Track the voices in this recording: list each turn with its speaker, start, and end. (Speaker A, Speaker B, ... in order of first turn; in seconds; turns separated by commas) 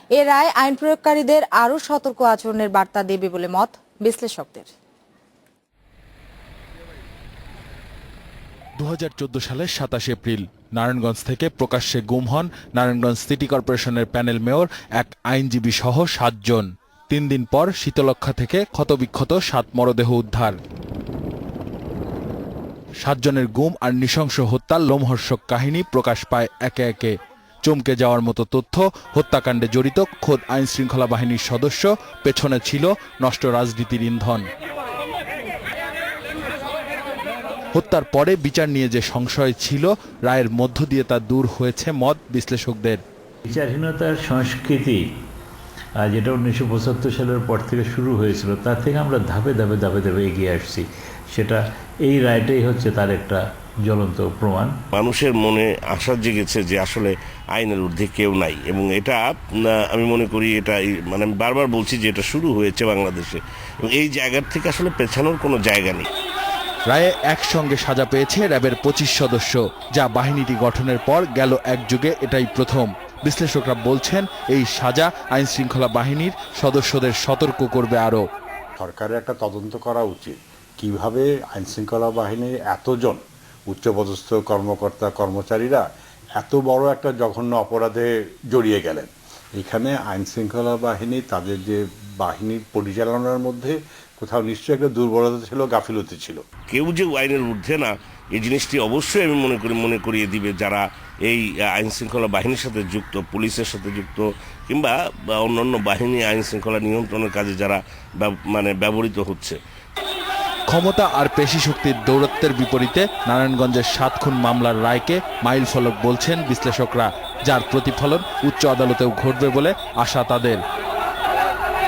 Speaker A: 0.1-4.7, Speaker B: 8.8-20.6, Speaker B: 23.0-34.4, Speaker B: 37.7-43.0, Speaker C: 43.5-45.0, Speaker C: 46.0-54.8, Speaker D: 54.9-66.1, Speaker B: 66.9-78.2, Speaker E: 78.8-85.8, Speaker E: 86.4-96.4, Speaker D: 96.7-109.6, Speaker B: 110.7-120.6